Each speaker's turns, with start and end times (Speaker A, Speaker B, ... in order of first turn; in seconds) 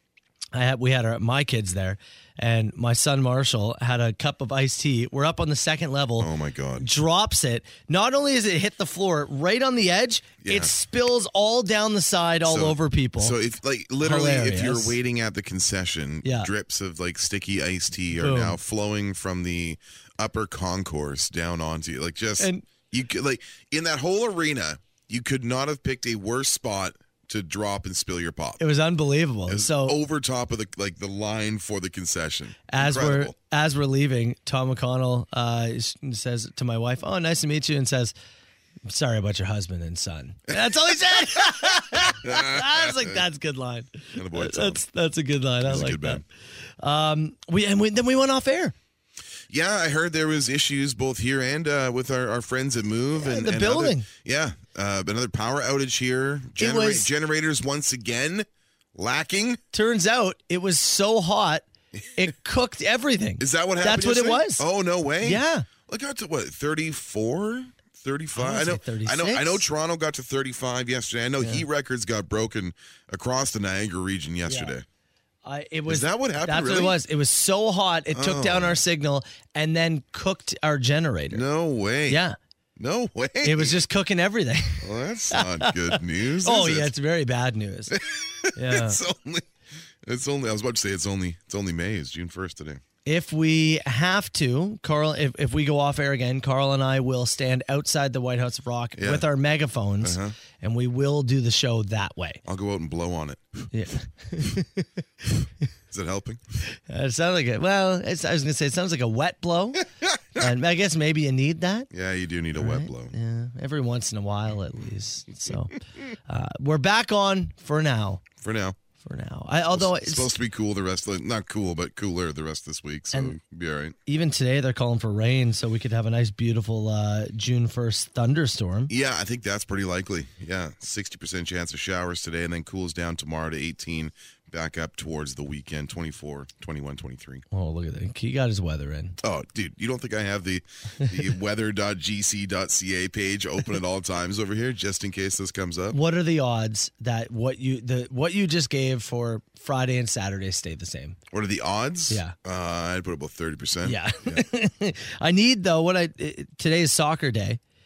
Speaker A: 0.5-6.3, 6.8-13.3, 14.0-14.9, 16.2-16.5, 18.1-18.6, 28.6-30.0, 32.7-38.1, 38.9-46.2, 46.8-48.7, 53.2-54.1, 56.6-57.1, 59.7-64.6, 65.2-65.7, 68.3-69.6, 71.4-71.6, 74.5-74.7, 75.4-81.4, 82.1-82.3, 83.4-88.0, 88.5-89.0, 93.0-102.4, 103.7-104.9, 106.7-111.9, 112.5-118.2, 119.0-120.3, 124.1-128.9, 137.5-139.2, 145.9-151.2, 152.1-152.3, 153.8-157.6
Speaker B: 6.2-6.9, 10.4-10.7, 12.4-28.6, 29.5-33.3, 41.3-43.2, 44.1-44.8, 45.6-46.2, 49.5-59.6, 61.9-62.2, 63.4-74.8, 75.9-77.0, 78.1-78.8, 81.3-82.2, 82.8-83.8, 84.8-86.9, 87.9-89.5, 90.0-92.8, 99.0-99.3, 100.0-100.3, 102.4-103.6, 105.9-106.4, 110.0-110.4, 111.9-113.1, 118.4-118.8, 119.7-124.0, 128.9-137.4, 139.2-146.0, 151.3-154.4